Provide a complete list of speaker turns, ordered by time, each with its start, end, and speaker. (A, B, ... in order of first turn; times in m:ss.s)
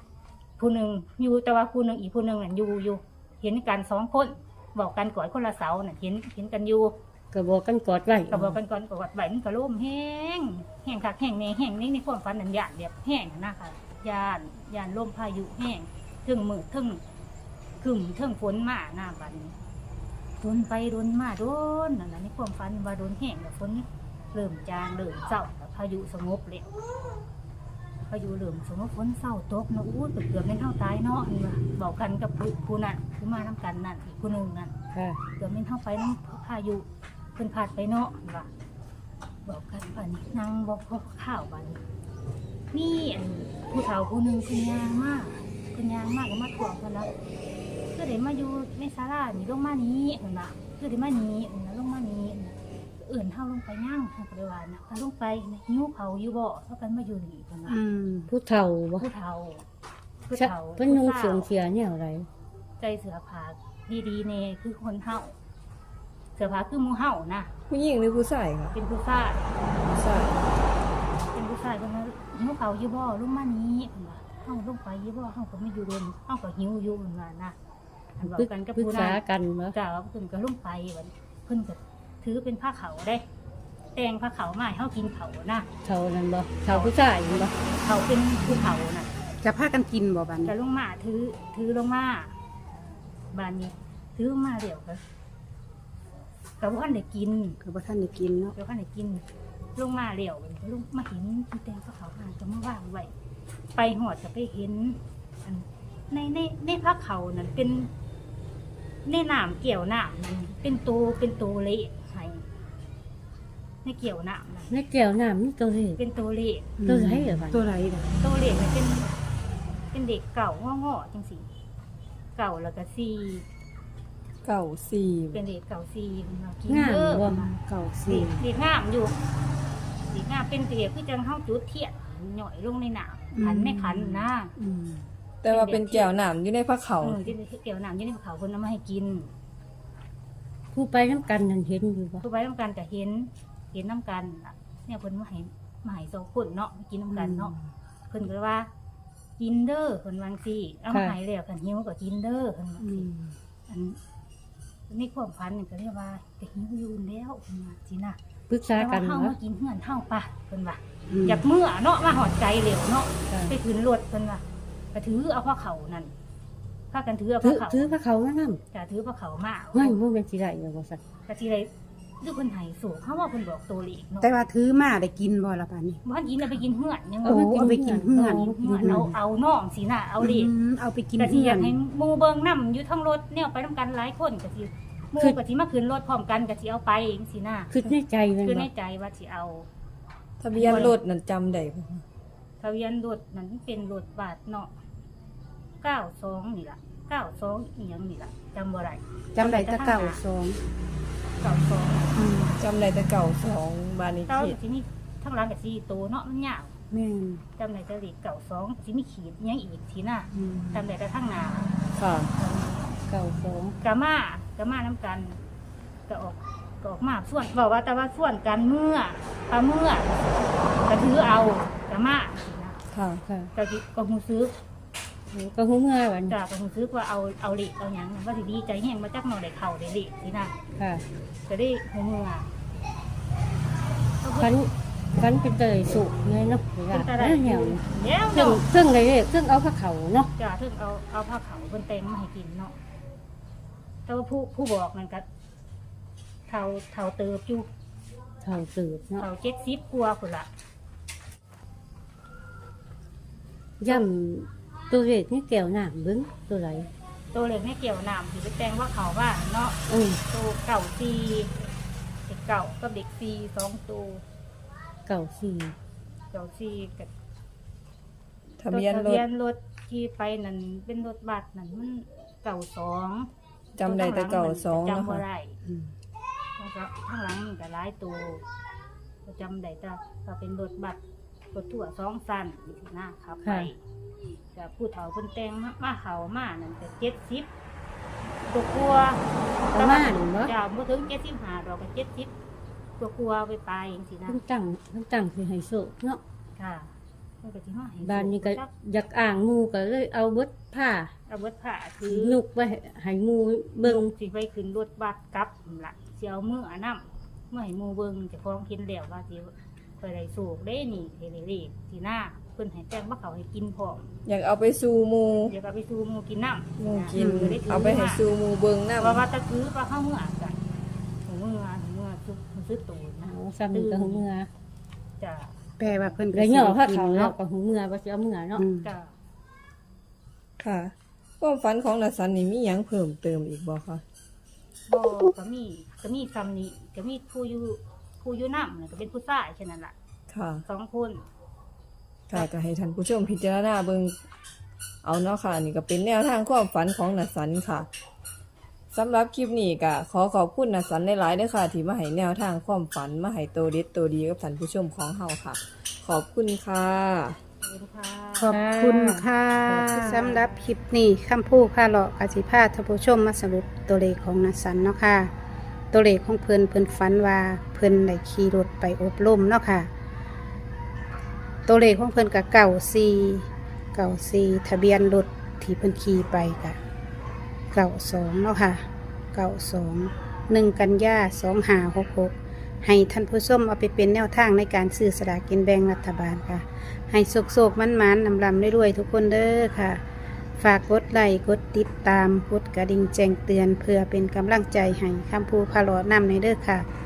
0:00.6-0:07.0 A
0:07.3-0:08.6 B
0:08.3-0:17.0 A
0:17.8-0:19.6 A
0:20.4-0:26.7 A
0:28.0-0:34.7 A
0:34.9-0:35.2 B
0:35.4-0:38.5 A
0:39.4-0:41.8 A
0:42.7-0:47.1 A
0:47.9-0:57.8 A
0:57.7-0:58.3 C
0:58.3-0:59.1 B
0:59.0-0:59.6 A
1:00.3-1:01.5 A
1:00.3-1:02.3 B
1:02.8-1:05.3 A
1:06.4-1:07.5 A
1:07.7-1:08.8 D
1:08.7-1:09.5 A
1:09.9-1:10.3 D
1:10.0-1:10.2 B
1:11.3-1:17.6 A
1:18.2-1:19.2 A
1:18.2-1:19.7 B
1:19.7-1:23.2 A
1:23.9-1:25.7 A
1:25.8-1:27.5 B
1:26.7-1:29.1 A
1:29.4-1:30.5 C
1:30.4-1:32.3 A
1:33.3-1:35.0 A
1:36.6-1:37.6 A
1:37.6-1:38.5 C
1:38.5-1:39.2 A
1:39.8-1:43.1 A
1:43.7-1:47.9 A
1:49.0-1:52.4 A
1:53.8-1:54.7 A
1:54.7-1:56.0 B
1:56.0-1:56.8 A
1:56.8-1:58.1 C
1:56.8-1:57.6 B
1:58.2-1:59.1 A
1:59.9-2:01.5 A
2:02.4-2:03.4 A
2:04.4-2:05.4 D
2:05.3-2:07.5 A
2:06.7-2:07.3 B
2:07.2-2:08.4 C
2:08.1-2:09.2 A
2:10.1-2:14.5 A
2:13.3-2:15.1 C
2:15.4-2:17.3 D
2:15.4-2:16.1 A
2:17.0-2:19.3 A
2:20.7-2:22.2 B
2:22.2-2:27.5 A
2:27.1-2:27.6 C
2:28.1-2:28.7 A
2:29.4-2:33.1 A
2:32.8-2:33.4 C
2:33.7-2:34.0 A
2:34.9-2:38.2 A
2:38.5-2:39.3 B
2:38.7-2:46.1 A
2:41.1-2:41.4 C
2:43.3-2:43.5 B
2:46.9-2:48.0 A
2:47.4-2:48.6 B
2:48.7-2:50.0 A
2:49.7-2:51.0 B
2:51.3-2:54.3 A
2:54.2-2:56.0 C
2:56.0-3:00.5 A
2:57.2-2:59.1 C
2:57.2-2:59.1 B
3:00.2-3:01.8 C
3:01.2-3:07.8 A
3:07.7-3:08.7 B
3:08.4-3:09.7 A
3:10.4-3:12.0 D
3:10.5-3:11.0 A
3:12.6-3:14.7 A
3:15.8-3:20.2 A
3:19.3-3:20.6 C
3:21.4-3:22.1 A
3:22.1-3:22.6 C
3:22.6-3:24.6 D
3:24.3-3:26.7 A
3:26.9-3:27.4 C
3:27.6-3:31.8 A
3:30.3-3:30.8 C
3:32.0-3:32.3 B
3:32.3-3:32.9 A
3:33.1-3:33.8 B
3:33.8-3:35.4 A
3:36.1-3:42.8 A
3:42.9-3:43.2 D
3:43.5-3:44.5 A
3:45.3-3:46.4 B
3:46.3-3:50.5 A
3:50.8-3:51.0 B
3:51.5-3:52.5 A
3:54.2-3:54.5 A
3:54.4-4:00.3 B
3:56.9-3:58.6 A
4:00.4-4:02.8 A
4:04.1-4:05.2 A
4:06.5-4:07.7 A
4:08.4-4:09.3 B
4:09.2-4:10.5 A
4:13.8-4:16.9 B
4:17.3-4:21.5 A
4:19.9-4:20.2 B
4:22.2-4:24.2 A
4:25.1-4:25.7 B
4:26.3-4:27.1 A
4:28.6-4:29.2 D
4:28.7-4:35.6 A
4:33.8-4:35.2 D
4:36.6-4:38.4 A
4:39.2-4:41.0 A
4:41.5-4:43.8 A
4:43.4-4:43.7 B
4:44.5-4:47.5 A
4:48.5-4:49.2 A
4:49.7-4:50.5 B
4:49.7-4:52.3 A
4:53.0-4:54.4 A
4:54.3-4:56.2 B
4:56.6-4:58.7 A
4:58.0-5:01.1 B
5:01.3-5:02.4 A
5:02.0-5:04.1 B
5:03.8-5:14.1 A
5:14.2-5:15.5 D
5:15.5-5:18.2 A
5:16.8-5:19.2 D
5:17.1-5:17.6 C
5:19.0-5:20.6 A
5:21.2-5:24.2 A
5:23.2-5:24.5 B
5:25.2-5:25.5 A
5:25.8-5:27.3 C
5:26.3-5:28.6 B
5:28.6-5:28.9 C
5:28.8-5:29.1 A
5:30.6-5:34.0 D
5:34.9-5:39.9 A
5:40.3-5:40.6 D
5:40.6-5:41.2 A
5:42.3-5:44.2 D
5:45.0-5:47.9 D
5:48.9-5:57.4 D
5:57.6-5:58.6 A
5:58.4-6:05.3 C
5:58.5-5:59.2 B
5:59.7-6:00.7 A
6:05.9-6:09.9 C
6:11.6-6:16.8 C
6:17.7-6:30.0 C
6:30.6-6:36.8 C